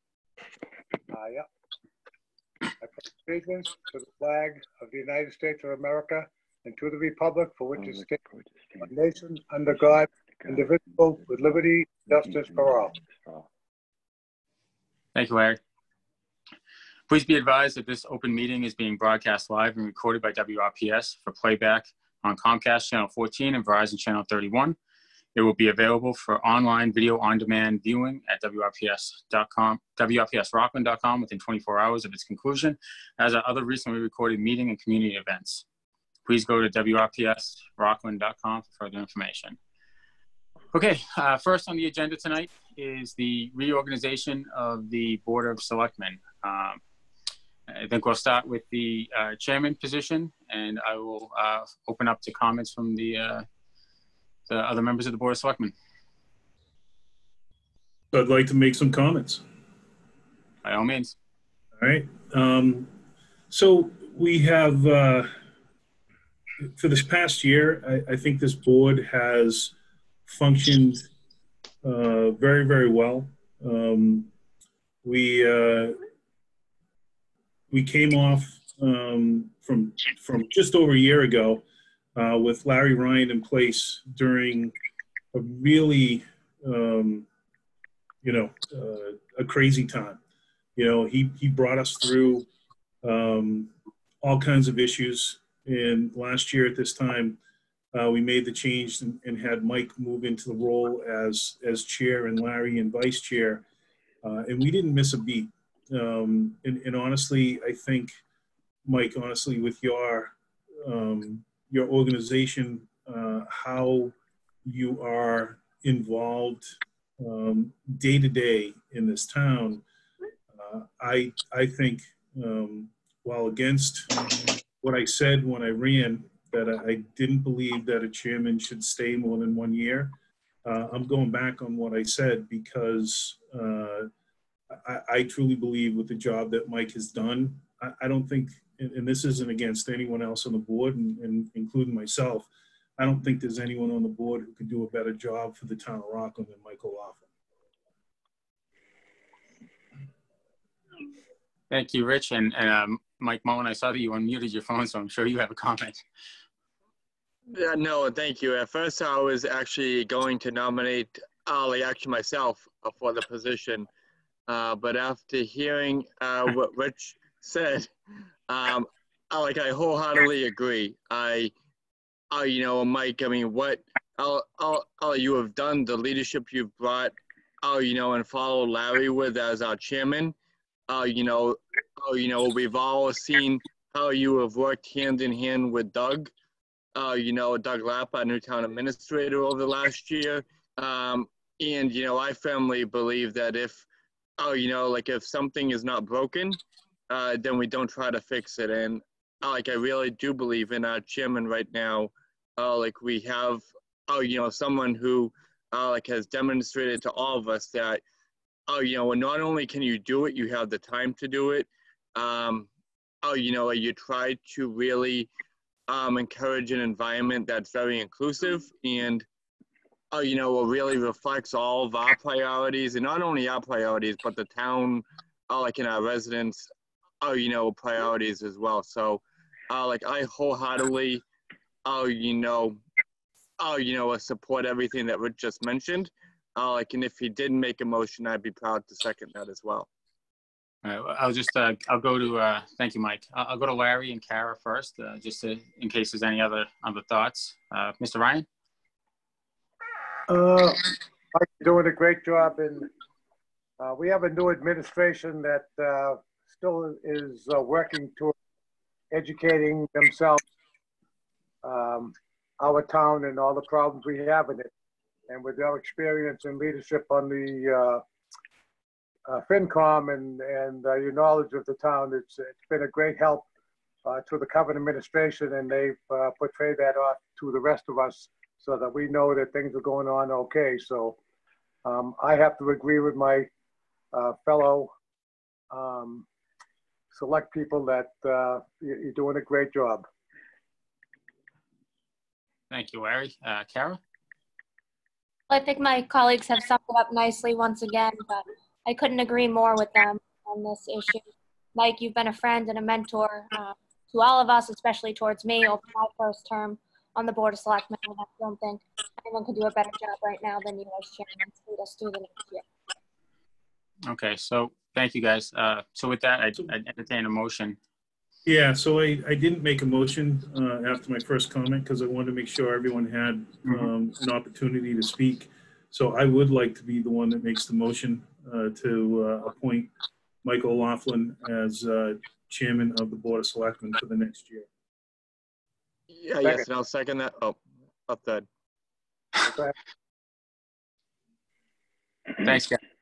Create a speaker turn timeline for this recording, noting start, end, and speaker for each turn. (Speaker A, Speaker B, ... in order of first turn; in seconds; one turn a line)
Speaker A: 1.1-1.4
Speaker A: 2.8-8.2
Speaker A: 8.8-12.9
Speaker B: 15.1-15.6
Speaker B: 17.1-24.8
Speaker B: 25.3-35.6
Speaker B: 36.2-39.6
Speaker B: 40.7-46.8
Speaker B: 47.7-53.5
Speaker B: 54.5-55.7
Speaker C: 58.1-59.4
Speaker B: 60.6-61.1
Speaker C: 61.8-62.9
Speaker C: 63.5-65.3
Speaker C: 66.7-69.7
Speaker C: 70.3-71.1
Speaker C: 71.8-74.3
Speaker C: 75.0-76.0
Speaker C: 77.7-81.6
Speaker C: 82.2-84.7
Speaker C: 85.3-87.2
Speaker C: 88.2-90.2
Speaker C: 90.8-92.5
Speaker C: 93.0-97.4
Speaker C: 97.9-103.6
Speaker C: 104.2-108.2
Speaker C: 108.8-114.1
Speaker C: 114.6-119.8
Speaker C: 120.5-124.1
Speaker C: 124.8-134.1
Speaker C: 134.7-147.2
Speaker B: 151.7-156.0
Speaker D: 157.5-163.9
Speaker D: 164.5-167.9
Speaker D: 168.5-171.5
Speaker D: 172.3-180.3
Speaker D: 180.9-186.3
Speaker D: 186.9-193.8
Speaker D: 194.4-196.6
Speaker D: 197.1-208.0
Speaker D: 208.7-212.7
Speaker D: 213.2-215.3
Speaker D: 215.9-219.2
Speaker D: 220.1-226.7
Speaker D: 227.2-231.2
Speaker D: 231.8-232.8
Speaker D: 233.6-239.9
Speaker B: 240.8-248.4
Speaker A: 250.3-252.9
Speaker A: 253.8-258.3
Speaker A: 259.1-260.4
Speaker A: 261.6-264.7
Speaker A: 265.3-268.0
Speaker A: 269.3-273.5
Speaker A: 274.0-281.2
Speaker A: 281.8-283.5
Speaker A: 284.1-284.9
Speaker A: 285.7-286.2
Speaker A: 287.1-290.1
Speaker B: 292.7-294.0
Speaker E: 295.5-312.6
Speaker B: 314.1-317.8
Speaker C: 318.4-329.9
Speaker C: 330.4-334.7
Speaker D: 336.1-338.4
Speaker A: 339.4-339.7
Speaker B: 342.4-342.8